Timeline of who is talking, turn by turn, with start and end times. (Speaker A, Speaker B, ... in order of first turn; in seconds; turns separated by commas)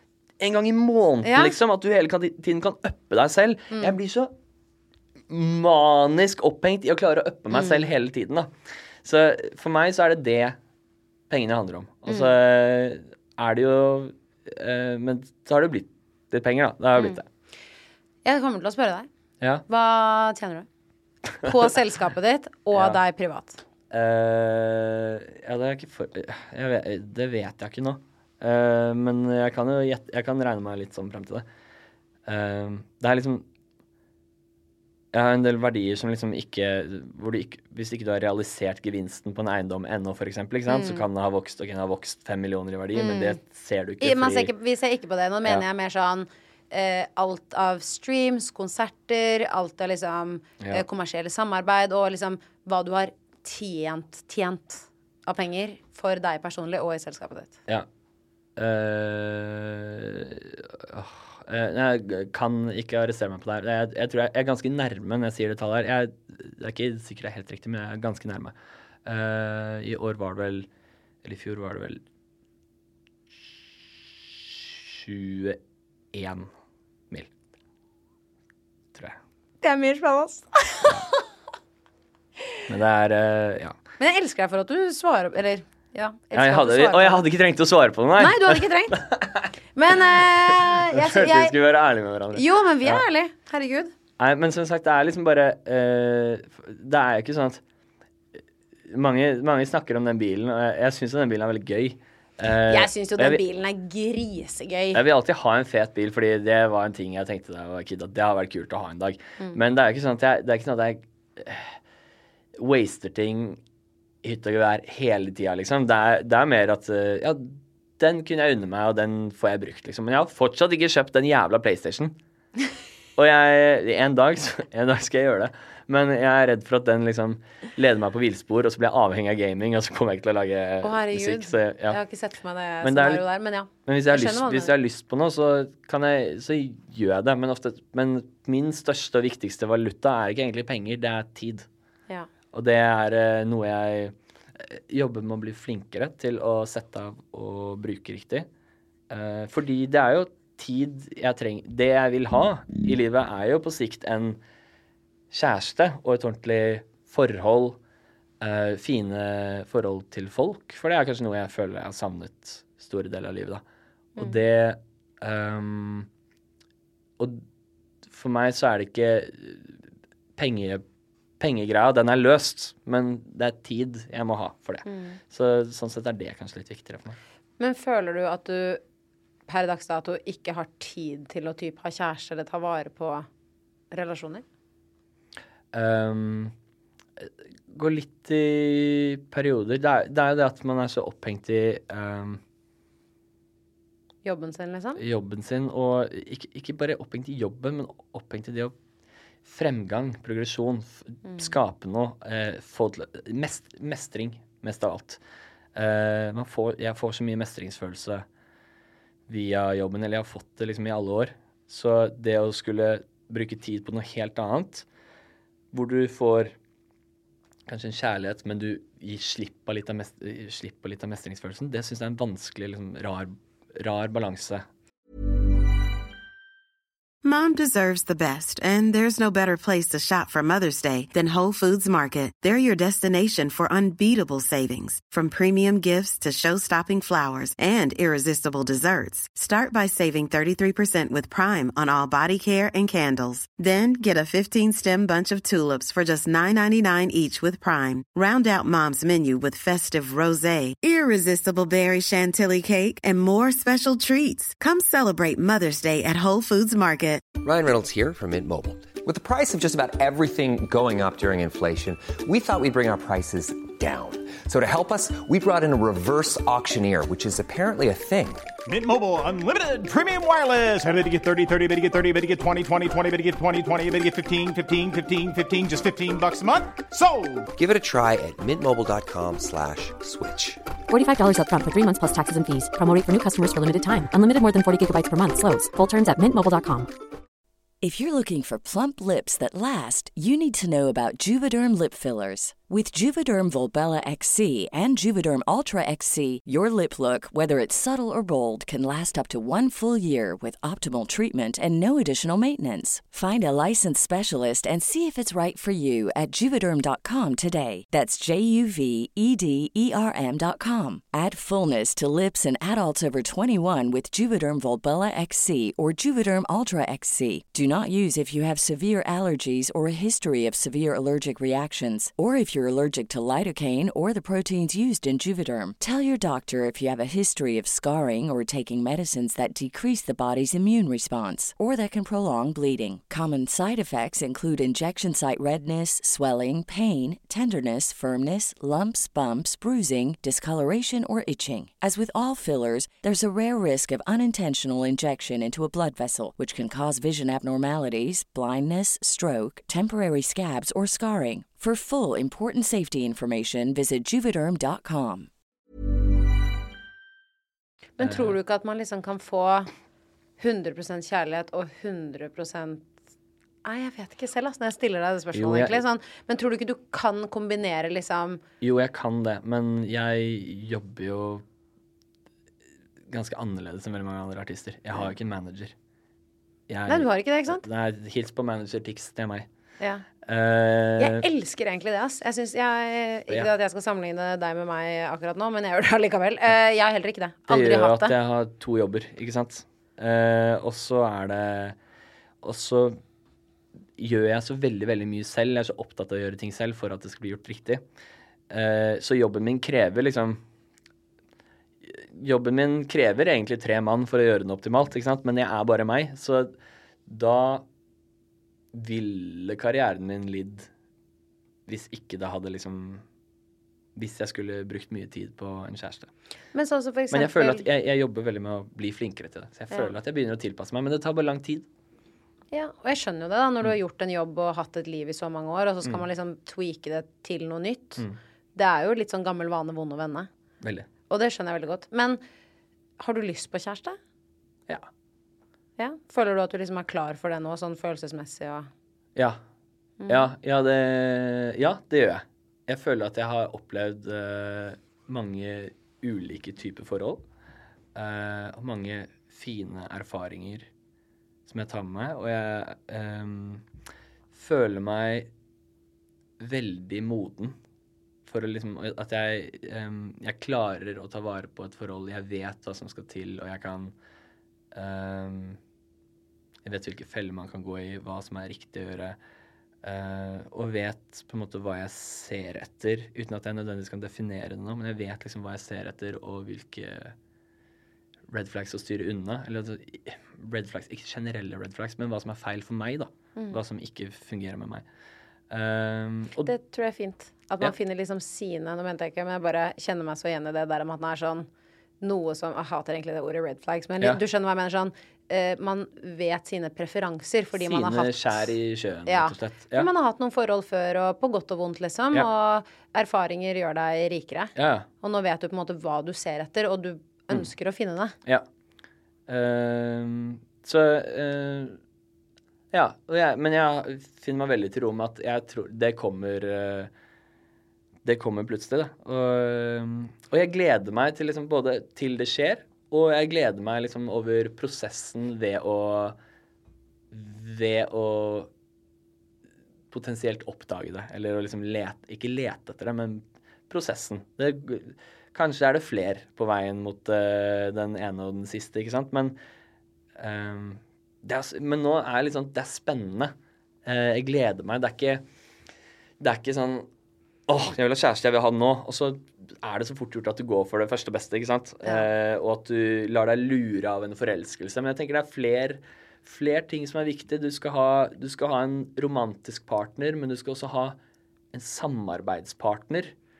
Speaker A: 0.4-4.3, Speaker B: 1.2-1.5, Speaker A: 5.3-8.5, Speaker B: 7.5-7.9, Speaker A: 9.0-10.6, Speaker A: 11.3-17.2, Speaker B: 12.1-12.3, Speaker B: 18.2-19.1, Speaker B: 19.7-20.7, Speaker B: 21.4-23.6, Speaker A: 22.7-23.0, Speaker A: 23.9-31.4, Speaker A: 32.3-33.4, Speaker A: 35.1-44.5, Speaker B: 40.7-41.0, Speaker B: 42.9-43.4, Speaker B: 44.0-57.5, Speaker A: 58.5-70.7, Speaker A: 71.2-72.0, Speaker A: 74.6-75.6, Speaker A: 76.1-76.5, Speaker B: 79.6-81.2, Speaker A: 82.7-83.8, Speaker B: 84.0-87.2, Speaker A: 86.3-89.5, Speaker B: 88.2-89.0, Speaker B: 89.7-91.5, Speaker A: 90.1-93.0, Speaker B: 92.3-93.9, Speaker A: 94.2-97.6, Speaker A: 98.9-103.4, Speaker B: 102.7-105.0, Speaker A: 104.9-111.8, Speaker A: 112.5-113.6, Speaker A: 114.2-122.2, Speaker A: 123.2-132.0, Speaker B: 130.8-134.7, Speaker A: 132.8-133.2, Speaker A: 133.8-141.7, Speaker A: 142.5-148.5, Speaker A: 149.1-154.4, Speaker A: 155.3-157.8, Speaker A: 158.4-163.6, Speaker A: 164.2-166.1, Speaker A: 168.1-169.8, Speaker A: 170.4-170.8, Speaker A: 171.4-177.2, Speaker B: 174.8-175.2, Speaker B: 177.6-178.8, Speaker B: 179.5-183.3, Speaker B: 183.9-184.4, Speaker A: 185.7-186.5, Speaker A: 187.2-192.4, Speaker B: 194.2-195.0, Speaker A: 195.0-198.7, Speaker A: 199.4-205.2, Speaker A: 205.7-208.2, Speaker A: 209.3-214.8, Speaker A: 215.7-216.5, Speaker A: 217.7-224.6, Speaker C: 227.2-257.2, Speaker D: 257.4-268.5, Speaker E: 268.7-277.5, Speaker D: 277.5-280.6, Speaker F: 280.9-286.9, Speaker G: 287.8-355.3, Speaker B: 358.0-359.7, Speaker A: 358.0-358.3, Speaker B: 360.4-362.8, Speaker B: 363.6-368.4, Speaker A: 365.3-365.8, Speaker A: 368.6-371.4, Speaker A: 373.1-375.7, Speaker A: 376.7-379.5, Speaker B: 376.9-377.6, Speaker B: 379.8-380.1, Speaker A: 380.2-381.2, Speaker B: 381.0-388.1, Speaker A: 387.5-391.7, Speaker A: 392.4-393.0, Speaker A: 394.0-397.8, Speaker A: 398.5-400.4, Speaker A: 401.8-406.5, Speaker A: 407.1-407.6, Speaker A: 408.7-410.7, Speaker A: 411.7-413.0, Speaker A: 413.9-416.1, Speaker B: 416.5-417.6, Speaker A: 417.1-421.6, Speaker B: 422.5-428.0, Speaker B: 428.5-430.3, Speaker A: 430.6-430.9, Speaker B: 431.1-432.2, Speaker B: 433.0-434.0, Speaker B: 435.8-438.7, Speaker B: 440.0-440.3, Speaker A: 440.1-447.2, Speaker A: 447.9-450.7, Speaker A: 451.4-453.6, Speaker A: 454.3-455.3, Speaker A: 456.4-457.6, Speaker A: 458.3-463.9, Speaker A: 464.7-465.6, Speaker A: 466.6-469.2, Speaker A: 469.8-477.1, Speaker A: 478.3-484.8, Speaker A: 485.5-486.5, Speaker B: 486.4-491.5, Speaker B: 492.0-498.5, Speaker A: 497.6-499.9, Speaker B: 499.1-508.1, Speaker A: 504.6-504.9, Speaker A: 509.3-511.8, Speaker A: 512.7-516.9, Speaker A: 518.0-526.2, Speaker A: 527.1-528.5, Speaker A: 529.9-539.4, Speaker A: 540.2-543.3, Speaker A: 543.8-545.2, Speaker A: 546.2-546.9, Speaker A: 547.5-561.0, Speaker A: 561.5-563.1